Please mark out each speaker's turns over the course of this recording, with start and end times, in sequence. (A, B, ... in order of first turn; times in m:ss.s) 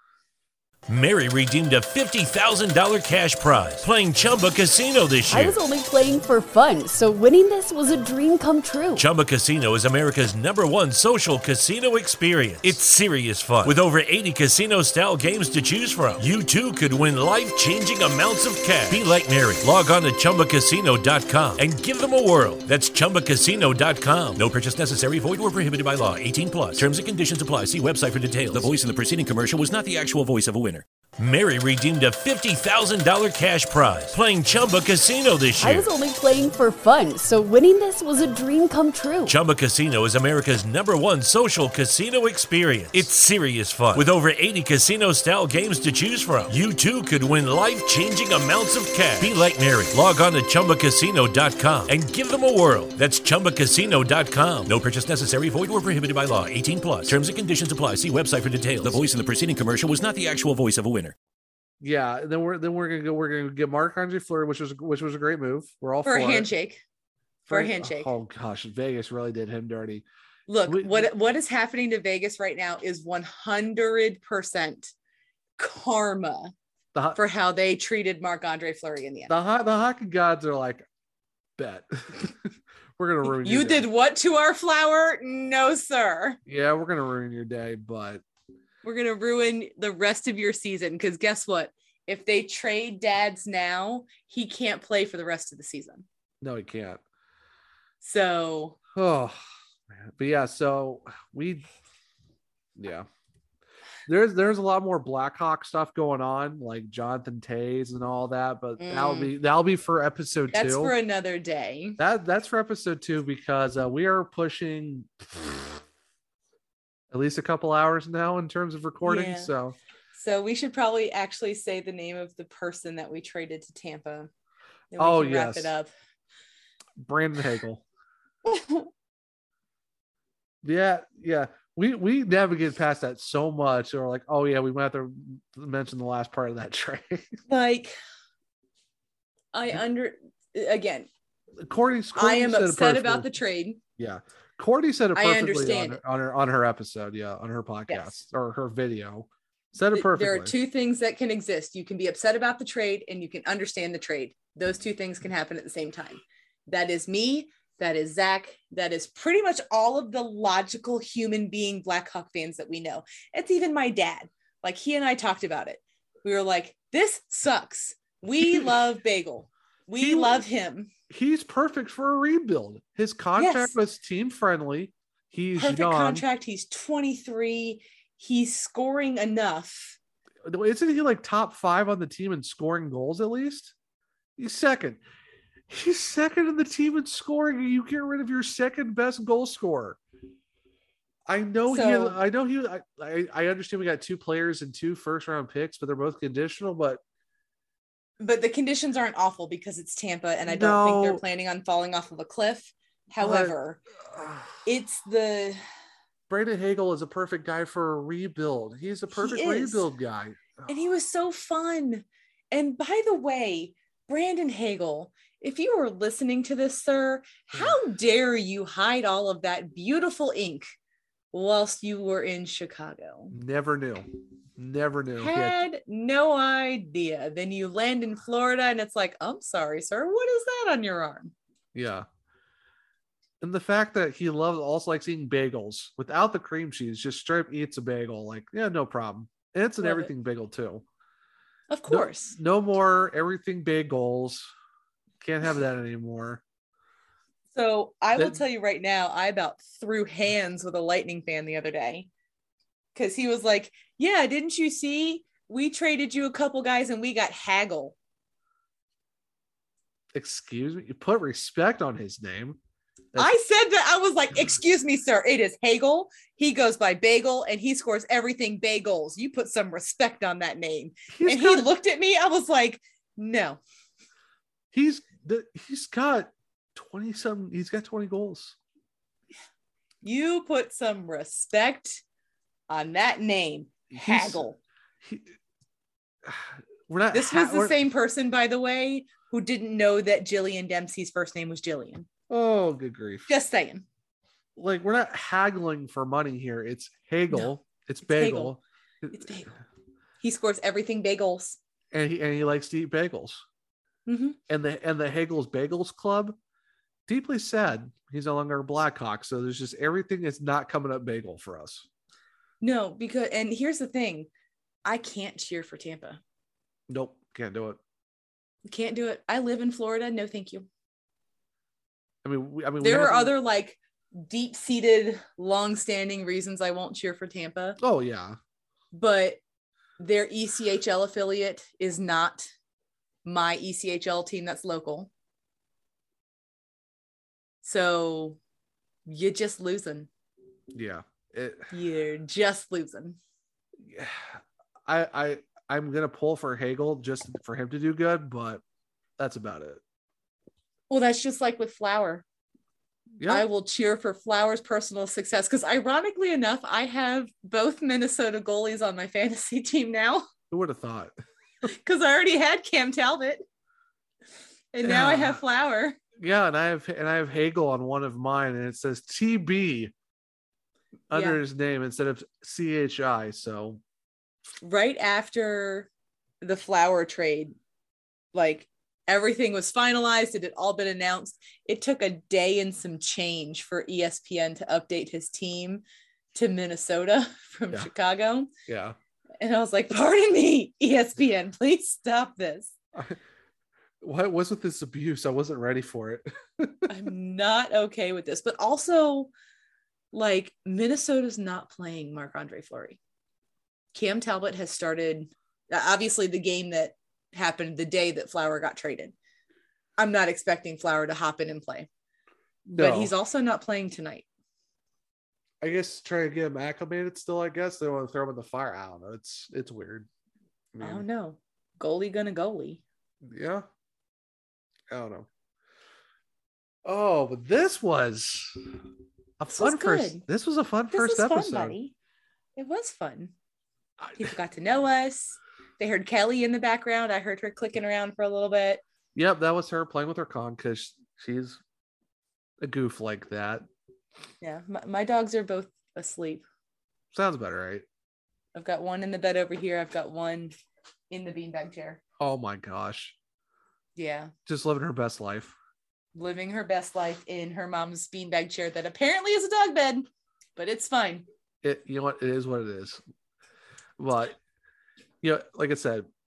0:00.9-0:05.6 A
0:05.3-0:09.0 B
0:09.0-0:35.9 A
0:35.6-0:39.4 B
0:39.3-1:01.1 A
1:01.8-1:06.5 C
1:06.0-1:06.8 D
1:07.5-1:10.0 C
1:07.5-1:08.1 D
1:10.5-1:14.9 D
1:10.7-1:11.1 C
1:15.6-1:16.5 D
1:17.0-1:17.2 C
1:17.2-1:19.3 D
1:19.3-1:20.8 C
1:21.6-1:23.9 C
1:23.3-1:26.4 D
1:26.5-1:28.2 C
1:28.8-1:36.0 D
1:36.4-1:37.0 C
1:38.0-1:38.8 D
1:38.9-1:39.4 C
1:39.9-1:41.7 C
1:42.8-1:43.1 C
1:44.1-1:50.9 C
1:48.8-1:49.3 D
1:50.5-1:52.0 D
1:52.0-1:55.8 C
1:57.1-1:59.8 C
1:59.0-1:59.5 D
2:00.1-2:04.3 D
2:04.9-2:05.9 D
2:05.0-2:05.7 C
2:07.0-2:07.8 C
2:08.5-2:08.9 D
2:10.6-2:17.4 C
2:17.5-2:18.0 D
2:19.5-2:21.1 D
2:21.6-2:23.3 C
2:22.2-2:23.8 D
2:24.0-2:30.5 C
2:25.2-2:26.0 D
2:27.9-2:28.2 D
2:29.9-2:50.9 D
2:48.4-2:48.7 C
2:50.0-2:50.4 C
2:51.1-2:56.2 C
2:53.4-2:53.8 D
2:55.6-3:00.0 D
3:00.4-3:03.7 C
3:04.4-3:05.0 C
3:05.7-3:10.0 C
3:11.3-3:17.0 C
3:11.7-3:12.2 D
3:18.2-3:23.8 D
3:20.4-3:21.2 C
3:23.2-3:23.6 C
3:24.1-3:24.6 C
3:24.6-3:25.6 D
3:26.3-3:30.5 C
3:29.1-3:29.9 D
3:30.7-3:40.7 D
3:41.3-3:43.4 D
3:43.3-3:45.6 C
3:45.2-3:51.3 D
3:51.7-3:52.1 C
3:53.4-4:00.8 C
3:59.8-4:00.1 D
4:01.7-4:02.4 D
4:01.9-4:04.5 C
4:05.2-4:06.4 C
4:07.5-4:12.1 D
4:08.1-4:08.4 C
4:13.0-4:18.0 D
4:20.1-4:22.6 C
4:23.2-4:33.6 D
4:31.1-4:31.7 C
4:34.7-4:38.6 C
4:40.0-4:42.0 D
4:42.7-4:44.6 D
4:43.9-4:44.4 C
4:45.0-4:45.3 C
4:46.3-4:47.8 C
4:47.1-4:52.1 D
4:52.3-4:53.3 C
4:53.3-4:53.8 D
4:54.6-4:59.2 C
4:58.1-4:58.6 D
4:59.1-4:59.5 D
5:00.2-5:01.6 D
5:01.9-5:03.4 C
5:04.1-5:04.4 D
5:04.5-5:06.4 C
5:07.1-5:11.9 C
5:12.6-5:14.3 D
5:14.8-5:16.2 D
5:16.9-5:17.8 C
5:18.7-5:20.7 D
5:22.2-5:23.3 C
5:22.8-5:27.8 D
5:27.8-5:28.4 C
5:28.9-5:29.4 D
5:30.0-5:32.5 D
5:33.2-5:35.1 D
5:37.6-5:38.4 D
5:39.1-5:40.1 D
5:40.7-5:41.7 C
5:41.7-5:43.2 D
5:43.8-5:48.6 C
5:49.2-5:49.8 C
5:50.9-5:52.2 D
5:53.2-5:53.5 C
5:53.3-6:00.3 D
6:00.5-6:01.1 C
6:01.7-6:03.4 D
6:04.7-6:06.0 D
6:04.8-6:05.4 C
6:06.2-6:09.9 C
6:11.1-6:13.8 C
6:11.1-6:11.4 D
6:14.6-6:15.9 D
6:16.4-6:17.5 D
6:18.3-6:25.8 D
6:26.3-6:28.5 D
6:28.7-6:29.0 C
6:29.4-6:32.8 D
6:34.0-6:36.9 C
6:36.9-6:39.3 D
6:40.1-6:43.0 D
6:43.9-6:49.2 D
6:50.0-6:51.9 D
6:52.7-6:53.1 C
6:52.8-6:54.3 D
6:55.6-7:00.1 C
7:00.7-7:01.0 C
7:00.8-7:02.8 D
7:03.2-7:03.7 C
7:04.9-7:05.3 C
7:06.8-7:08.6 C
7:09.4-7:11.8 C
7:09.5-7:10.2 D
7:10.9-7:11.9 D
7:12.6-7:13.3 D
7:14.0-7:14.3 C
7:14.2-7:18.8 D
7:19.2-7:21.6 C
7:22.6-7:23.7 C
7:24.4-7:26.4 D
7:27.1-7:27.9 C
7:28.6-7:30.5 D
7:31.1-7:32.0 D
7:32.2-7:33.2 C
7:34.0-7:34.3 D
7:34.5-7:35.6 C
7:36.2-7:40.1 D
7:40.6-7:41.3 D
7:41.6-7:43.0 C
7:44.0-7:44.4 C
7:45.2-7:46.1 C